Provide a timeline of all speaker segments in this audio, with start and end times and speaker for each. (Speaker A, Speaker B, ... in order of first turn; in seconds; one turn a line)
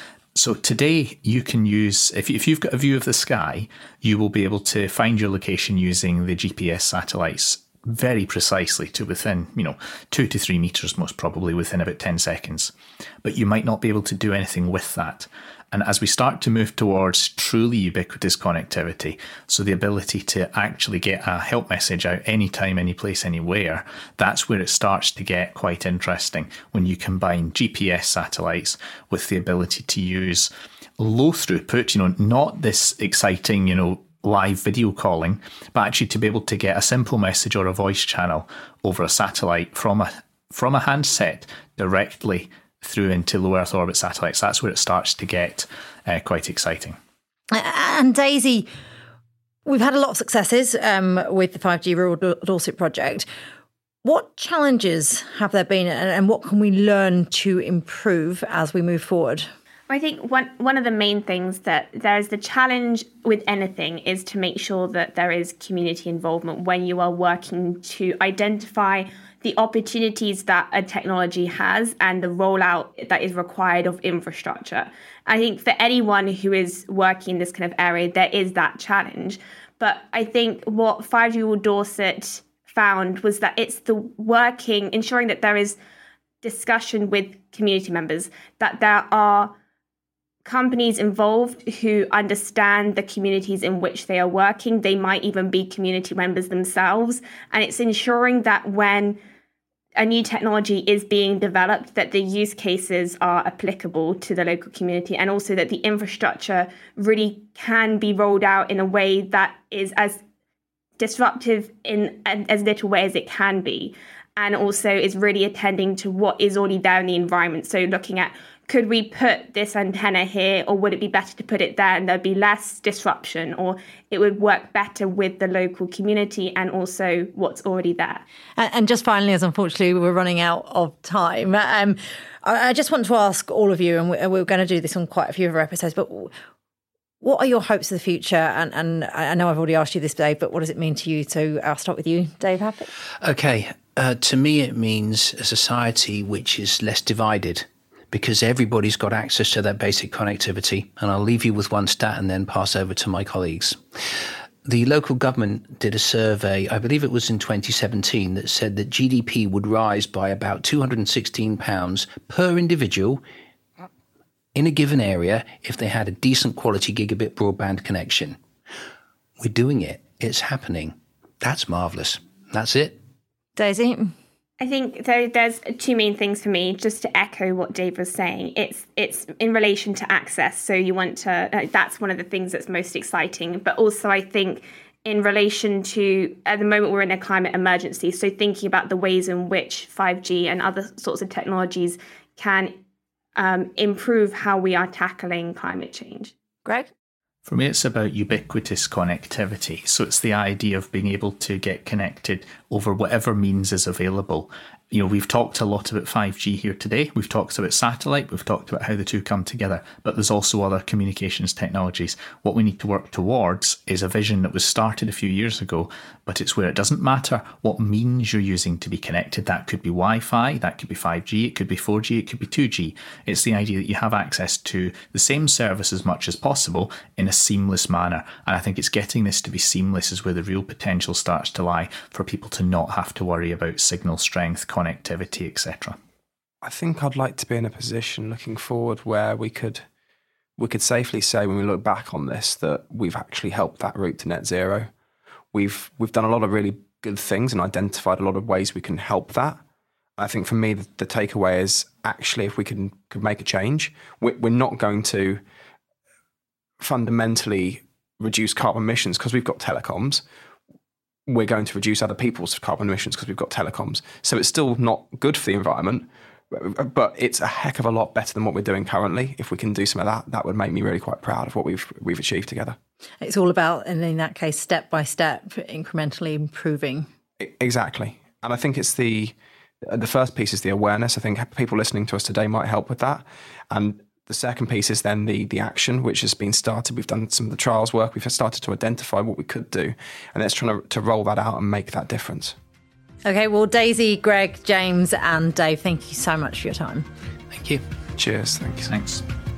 Speaker A: 0.3-47.0
Speaker B: 47.5-48.7
Speaker B: 49.7-53.3
Speaker B: 54.0-59.5
Speaker C: 59.9-85.8
Speaker C: 86.4-89.5
Speaker C: 90.5-99.2
Speaker C: 100.0-110.2
Speaker C: 111.0-128.2
Speaker B: 128.6-136.3
Speaker B: 137.2-142.9
Speaker D: 143.2-153.8
Speaker D: 154.7-163.2
Speaker D: 164.6-168.4
Speaker D: 169.4-173.0
Speaker B: 173.6-174.2
Speaker C: 174.6-192.7
Speaker C: 193.4-196.3
Speaker B: 196.7-196.9
Speaker A: 197.5-236.0
Speaker E: 236.6-239.8
Speaker E: 240.6-244.9
Speaker E: 245.5-249.6
Speaker E: 250.2-255.4
Speaker E: 256.8-260.2
Speaker E: 261.3-272.8
Speaker B: 273.2-277.1
Speaker E: 277.4-279.3
Speaker E: 279.9-292.6
Speaker B: 293.3-297.1
Speaker D: 297.5-297.8
Speaker E: 298.2-298.9
Speaker A: 298.8-299.2